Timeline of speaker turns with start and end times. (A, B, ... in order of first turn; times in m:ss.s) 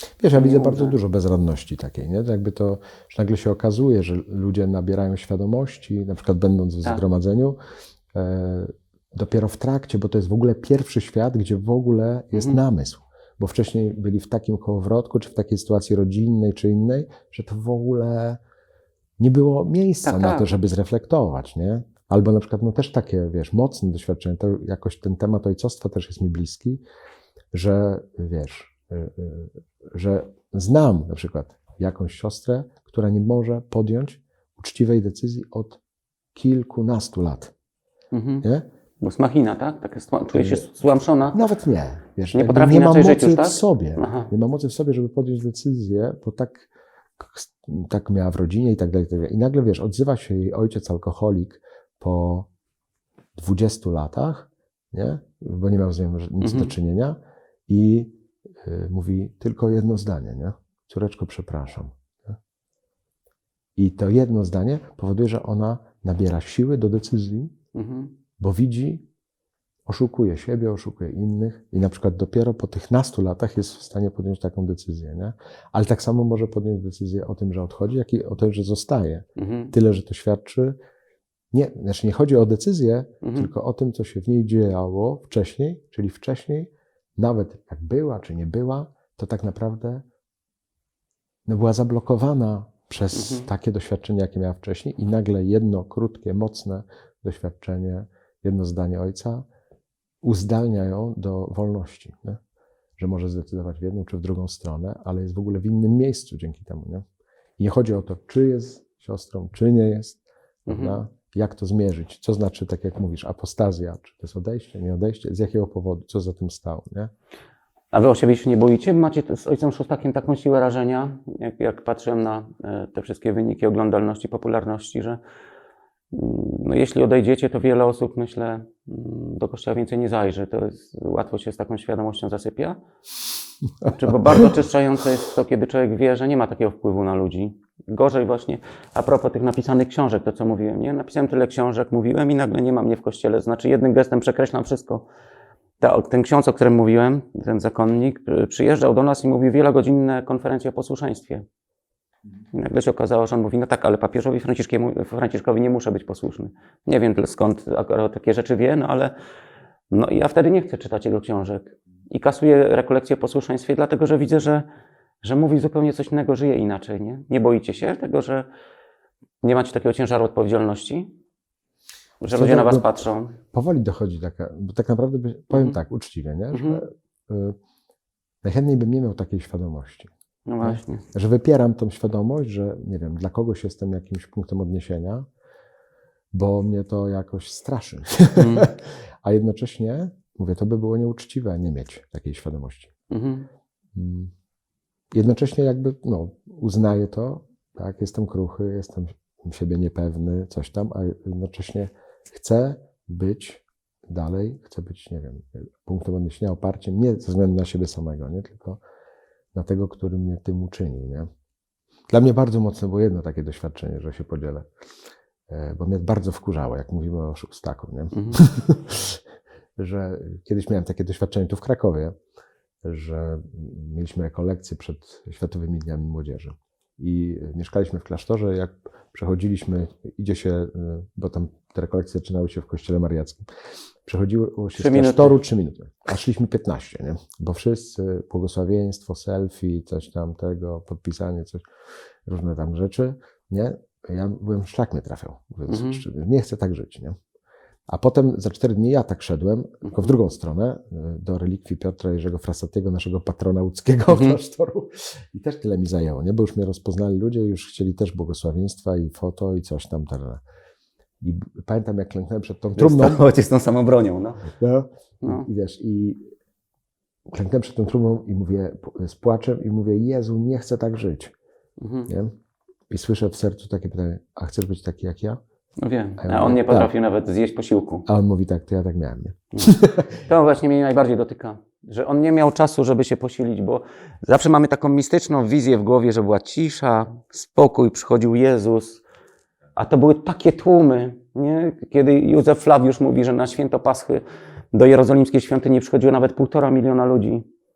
0:00.2-0:07.6 A
0:00.3-0:01.0 B
0:08.1-0:18.4 A
0:12.3-0:12.6 B
0:19.2-0:26.8 A
0:20.0-0:20.5 B
0:27.5-0:35.8 A
0:36.3-0:37.5 A
0:38.1-0:38.4 B
0:39.0-0:41.4 B
0:40.3-0:40.6 A
0:41.3-0:52.5 A
0:42.3-0:44.3 B
0:53.4-1:02.4 A
0:56.4-0:56.7 B
1:03.8-1:07.5 A
1:07.7-1:08.1 B
1:08.4-1:09.0 A
1:09.8-1:20.8 A
1:19.4-1:19.7 B
1:21.5-1:30.0 A
1:23.2-1:23.5 B
1:31.4-1:39.4 A
1:33.1-1:33.5 B
1:40.2-1:42.4 A
1:43.0-1:47.0 A
1:47.6-1:57.1 A
1:50.7-1:51.0 B
1:57.9-2:05.2 B
2:06.1-2:12.8 B
2:13.8-2:25.1 B
2:25.8-2:31.4 B
2:32.5-2:39.1 B
2:39.9-2:44.6 B
2:45.2-2:48.5 B
2:49.4-2:51.1 B
2:52.2-2:53.4 B
2:52.3-2:52.9 A
2:53.5-2:57.6 A
2:56.5-2:56.8 B
2:58.4-3:05.3 A
3:00.4-3:01.0 B
3:06.3-3:12.9 A
3:08.3-3:08.7 B
3:13.1-3:13.5 B
3:13.9-3:14.3 A
3:15.1-3:28.8 A
3:29.5-3:31.3 A
3:32.1-3:34.7 A
3:35.5-3:39.2 A
3:38.1-3:38.4 B
3:39.8-3:42.1 A
3:42.8-3:53.4 A
3:54.0-4:01.6 A
3:54.7-3:55.4 B
4:02.2-4:07.2 A
4:05.7-4:06.0 B
4:07.9-4:20.4 A
4:09.8-4:10.1 B
4:14.1-4:14.4 B
4:21.2-4:23.2 A
4:22.8-4:24.5 B
4:24.6-4:26.2 A
4:25.2-4:25.5 B
4:27.3-4:31.3 A
4:31.8-4:32.1 B
4:32.1-4:32.3 A
4:32.9-4:35.4 A
4:35.8-4:38.0 B
4:36.2-4:36.9 A
4:38.0-4:40.1 A
4:39.5-4:49.0 B
4:49.8-4:57.4 B